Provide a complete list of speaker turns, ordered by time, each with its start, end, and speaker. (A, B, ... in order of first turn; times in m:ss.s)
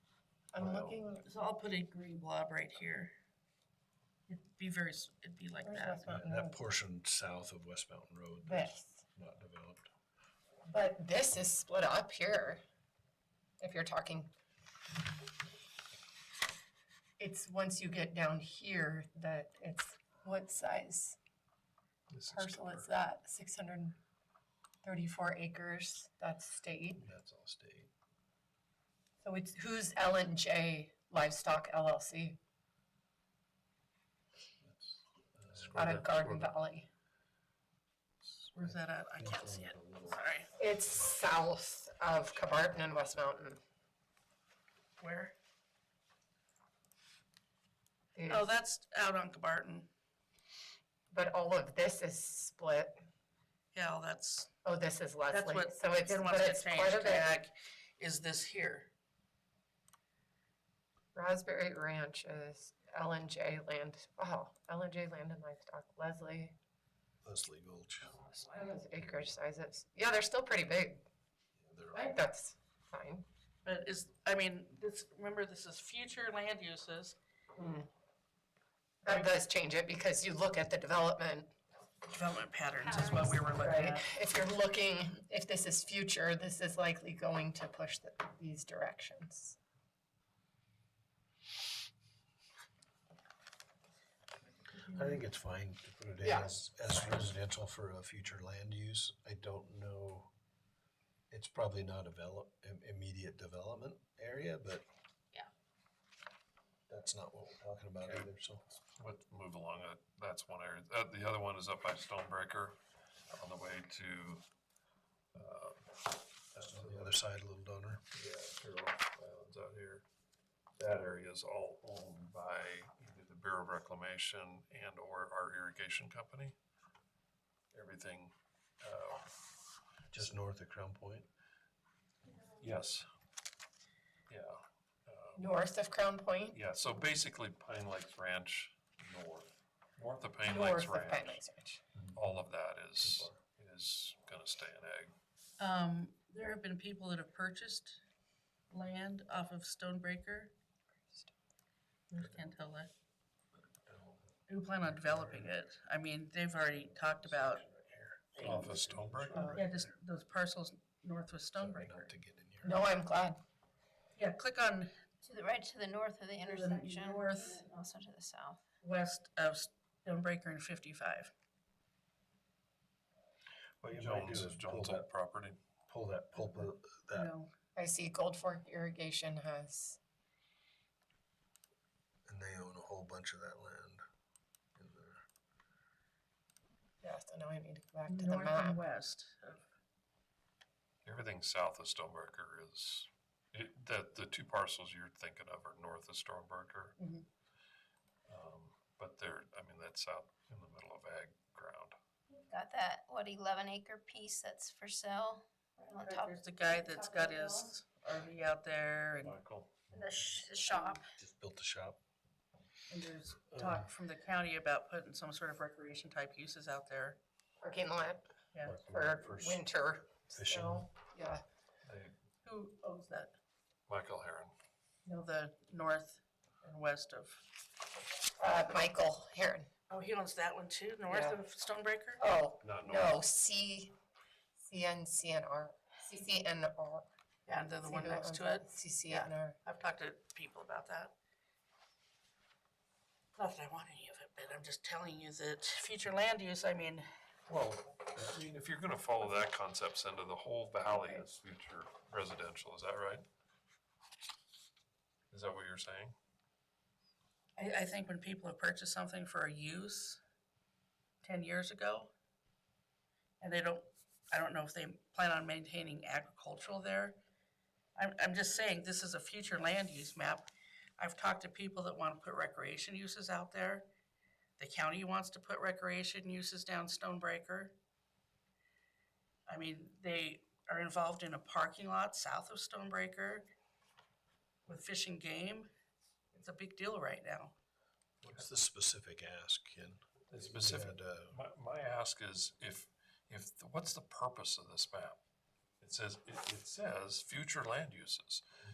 0:00.5-0:01.3 A
0:00.6-0:01.0 B
0:01.2-0:03.1 C
0:04.3-0:06.1 C
0:05.6-0:06.6 A
0:06.1-0:09.9 D
0:08.5-0:09.0 A
0:10.7-0:12.6 A
0:13.6-0:14.3 A
0:17.2-0:21.2 A
0:22.1-0:22.9 B
0:22.3-0:24.0 A
0:24.8-0:27.1 A
0:27.0-0:27.9 D
0:29.2-0:32.4 A
0:35.4-0:35.9 D
0:35.5-0:36.5 B
0:35.7-0:36.9 A
0:38.6-0:40.5 C
0:38.6-0:40.2 D
0:40.6-0:43.6 A
0:45.0-0:45.4 C
0:48.2-0:48.5 A
0:48.3-0:49.9 C
0:51.1-0:53.0 A
0:53.7-0:54.5 C
0:54.6-0:57.4 A
0:55.3-0:58.9 C
1:01.2-1:06.6 A
1:07.2-1:08.3 D
1:08.5-1:11.0 A
1:11.6-1:12.2 D
1:12.0-1:13.3 A
1:13.6-1:17.2 C
1:17.6-1:17.9 A
1:19.0-1:21.5 A
1:22.1-1:24.1 C
1:22.8-1:23.4 E
1:23.6-1:29.6 A
1:34.8-1:40.3 D
1:34.9-1:35.2 C
1:36.2-1:37.2 A
1:41.3-1:44.9 D
1:46.9-1:48.6 D
1:49.0-1:52.8 B
1:53.3-1:54.4 B
1:55.4-1:57.2 B
1:56.6-1:58.0 D
1:58.1-2:00.0 B
2:00.8-2:06.6 B
2:07.7-2:09.3 B
2:10.1-2:11.3 D
2:12.6-2:13.1 B
2:14.3-2:15.6 B
2:15.4-2:16.6 A
2:16.5-2:21.4 B
2:20.4-2:21.8 A
2:22.1-2:25.2 B
2:23.0-2:23.3 D
2:25.6-2:28.0 C
2:28.7-2:30.5 C
2:32.2-2:32.9 C
2:33.9-2:34.2 D
2:34.5-2:37.6 C
2:34.9-2:35.5 D
2:36.7-2:39.9 D
2:38.4-2:38.7 C
2:38.4-2:39.4 B
2:39.3-2:39.6 A
2:39.4-2:42.1 C
2:41.6-2:42.8 D
2:42.6-2:43.4 A
2:44.2-2:44.9 C
2:45.2-2:48.6 E
2:46.4-2:47.7 C
2:48.8-2:51.3 C
2:53.8-2:55.6 B
2:53.9-2:55.1 D
2:55.9-2:57.3 D
2:57.1-2:57.5 C
2:57.8-3:00.0 A
3:02.3-3:04.0 D
3:04.8-3:05.2 D
3:07.0-3:08.8 A
3:08.1-3:09.7 C
3:11.0-3:17.0 B
3:17.0-3:17.2 C
3:18.3-3:22.0 B
3:22.3-3:27.7 E
3:26.0-3:29.4 C
3:29.2-3:29.9 B
3:29.9-3:31.1 E
3:30.6-3:31.0 C
3:31.2-3:32.0 D
3:32.9-3:37.2 C
3:33.5-3:33.9 D
3:37.6-3:41.4 A
3:38.7-3:39.6 D
3:40.3-3:40.9 D
3:41.8-3:42.2 B
3:42.4-3:43.4 C
3:43.9-3:44.5 B
3:45.1-3:47.4 C
3:48.4-3:49.7 A
3:49.9-3:52.2 C
3:51.1-3:51.4 A
3:52.2-3:54.0 A
3:52.6-3:53.2 B
3:54.6-3:57.1 A
3:57.5-4:01.1 C
3:57.8-3:59.6 A
4:03.4-4:07.1 C
4:07.5-4:13.3 B
4:10.9-4:11.2 C
4:15.3-4:16.2 B
4:17.6-4:20.2 C
4:21.2-4:22.1 C
4:23.4-4:27.2 C
4:28.0-4:33.9 C
4:34.6-4:37.8 C
4:39.5-4:43.5 C
4:44.7-4:45.7 C
4:46.3-4:47.6 C
4:48.2-4:51.4 D
4:50.3-4:55.2 B
4:55.8-4:58.4 B